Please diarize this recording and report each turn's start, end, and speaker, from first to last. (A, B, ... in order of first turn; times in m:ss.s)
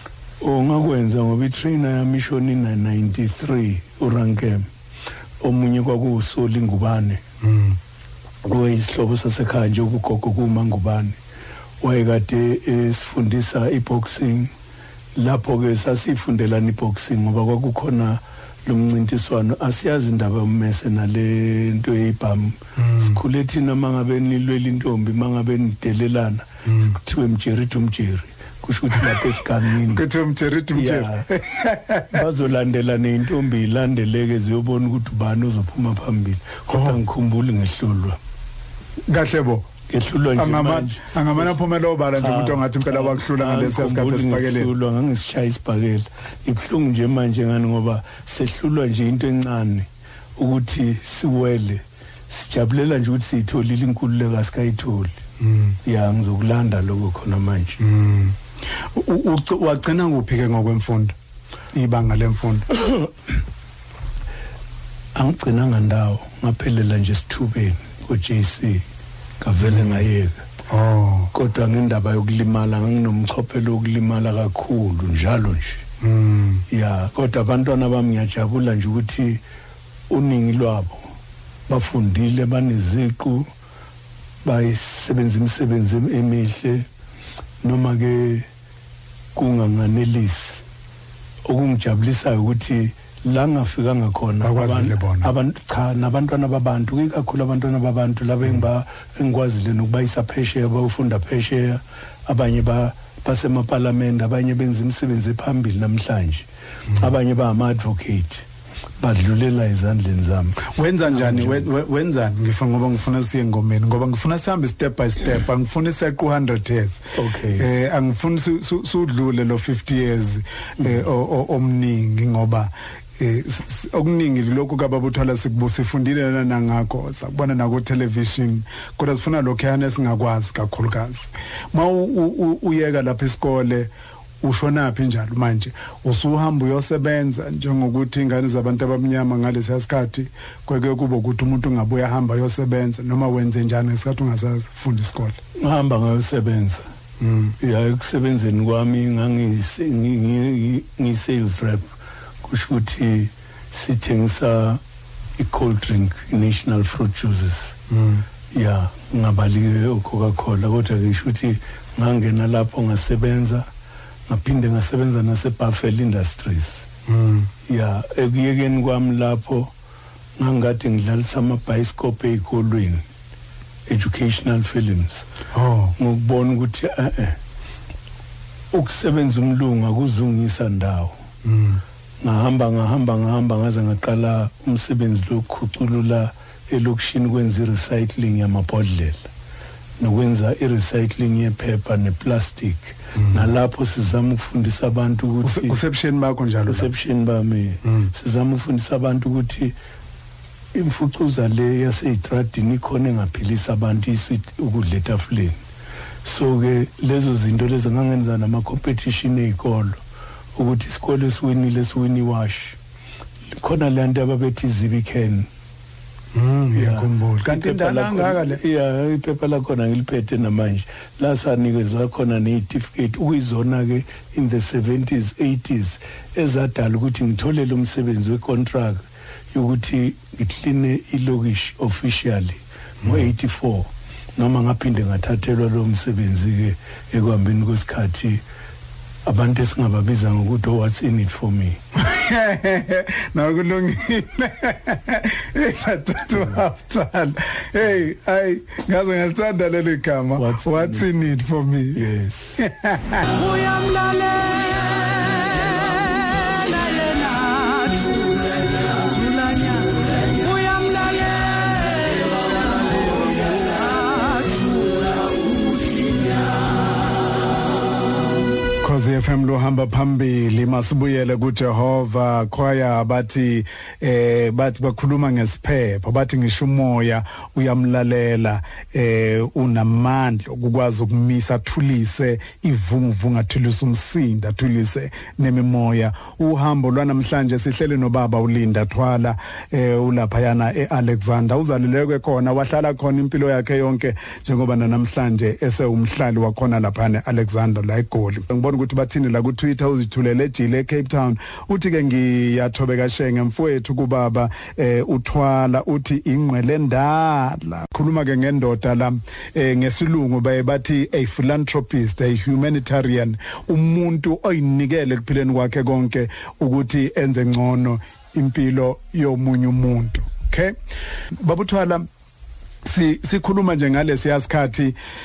0:00.4-0:04.7 A
0:05.4-0:07.2 A
0:07.4-0:07.8 B
0:08.4-0:11.2 A
0:11.8-0:14.5 A
0:15.2-0:30.0 A
0:22.8-0:23.2 B
0:26.6-0:27.0 B
0:29.0-0:29.3 B
0:29.8-0:32.2 B
0:30.7-0:31.3 A
0:32.1-0:38.2 A
0:36.7-0:37.0 B
0:39.1-0:39.7 B
0:39.9-0:41.6 A
0:40.3-0:44.7 B
0:42.1-0:55.2 A
0:55.4-0:55.8 B
0:55.8-0:57.8 A
0:57.8-0:58.4 B
0:58.9-1:01.2 B
1:01.7-1:02.8 B
1:05.1-1:08.8 A
1:09.4-1:10.4 A
1:09.6-1:10.0 B
1:10.7-1:11.3 B
1:11.3-1:15.8 A
1:16.0-1:16.6 B
1:16.7-1:19.4 A
1:20.1-1:21.1 A
1:21.7-1:23.5 A
1:24.4-1:26.8 A
1:27.6-1:28.5 A
1:29.4-1:30.6 A
1:31.4-1:48.4 A
1:34.4-1:35.3 B
1:49.0-1:51.7 A
1:50.6-2:25.4 B
1:57.1-1:57.7 A
2:25.6-2:26.8 A
2:27.2-2:27.5 B
2:27.6-2:31.9 A
2:32.4-2:34.8 A
2:35.4-2:37.8 A
2:37.9-2:38.2 B
2:38.5-2:43.7 A
2:44.3-2:46.8 A
2:47.1-2:47.5 B
2:47.7-2:49.7 A
2:50.4-2:53.0 A
2:53.9-2:55.2 A
2:55.5-2:55.9 B
2:56.0-2:57.4 A
2:58.7-3:01.2 A
3:01.4-3:01.8 B
3:02.2-3:09.3 A
3:10.0-3:15.8 A
3:13.2-3:13.5 B
3:15.4-3:16.9 B
3:16.7-3:19.7 A
3:17.8-3:18.1 B
3:20.7-3:25.6 A
3:26.2-3:30.0 A
3:30.5-3:32.8 A
3:33.6-3:35.5 A
3:36.3-3:38.6 B
3:36.8-3:58.4 A
3:53.0-3:53.3 B
3:59.2-4:01.8 A
4:01.9-4:12.0 B
4:10.4-4:11.1 A
4:11.9-4:12.6 A
4:12.6-4:13.3 B
4:13.6-4:15.7 C
4:16.3-4:18.0 C
4:20.4-4:21.8 C
4:28.8-5:20.7 B
5:21.4-5:22.1 B
5:22.8-5:24.9 B